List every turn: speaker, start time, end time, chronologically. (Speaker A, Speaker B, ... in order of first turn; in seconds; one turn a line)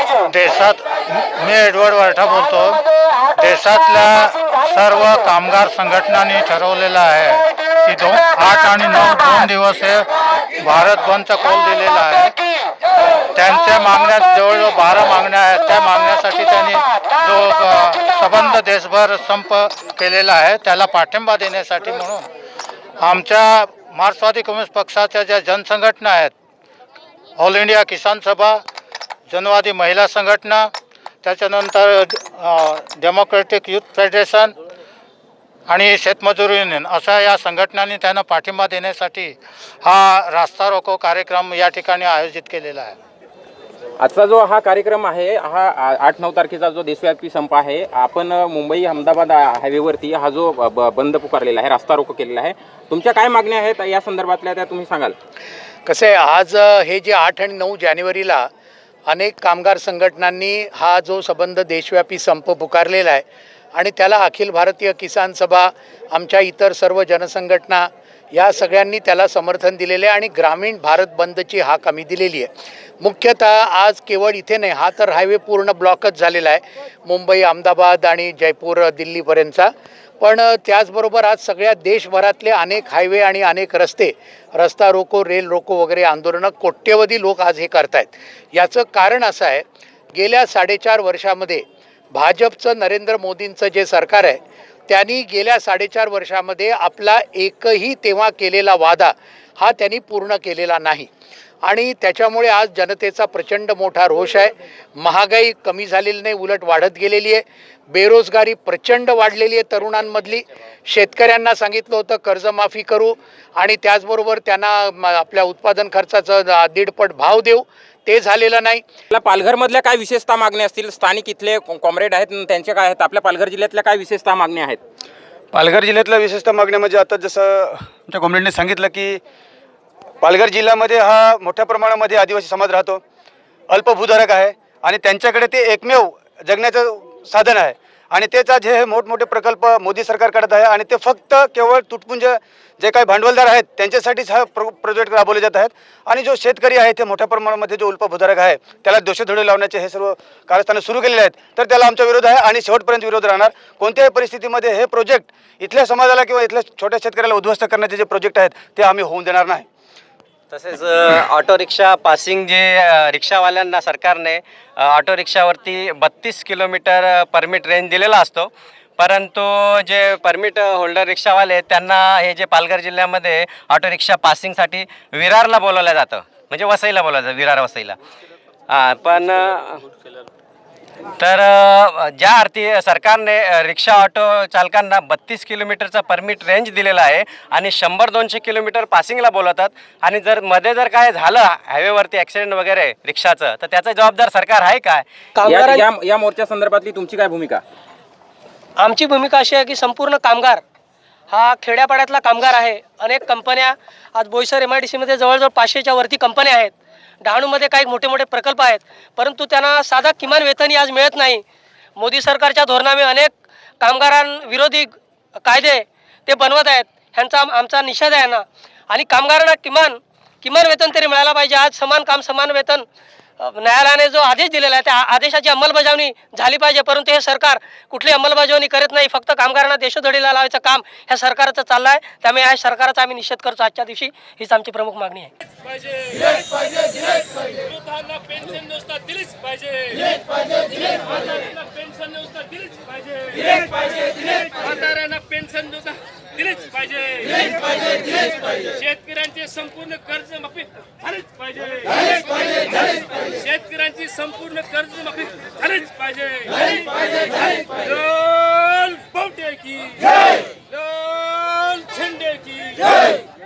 Speaker A: 0.3-2.8
Speaker A: 3.4-10.1
Speaker A: 10.6-12.3
Speaker A: 13.3-22.2
Speaker A: 23.0-26.3
Speaker A: 27.4-28.6
Speaker A: 29.3-30.7
Speaker A: 31.2-34.5
Speaker A: 35.7-43.0
Speaker B: 44.0-55.1
Speaker C: 55.9-58.5
Speaker C: 59.1-101.1
Speaker C: 101.6-118.8
Speaker B: 119.1-124.8
Speaker D: 125.5-129.2
Speaker D: 130.2-133.0
Speaker D: 133.7-159.7
Speaker E: 160.5-178.0
Speaker E: 178.7-179.8
Speaker E: 181.2-195.1
Speaker F: 195.3-195.9
Speaker B: 195.4-197.6
Speaker F: 198.8-200.6
Speaker F: 201.3-211.4
Speaker F: 211.9-214.9
Speaker F: 215.4-222.8
Speaker F: 223.4-235.3
Speaker G: 237.9-239.9
Speaker G: 241.6-243.0
Speaker G: 244.6-247.2
Speaker G: 248.8-250.6
Speaker G: 253.5-256.4
Speaker G: 258.1-259.9
Speaker G: 261.1-262.8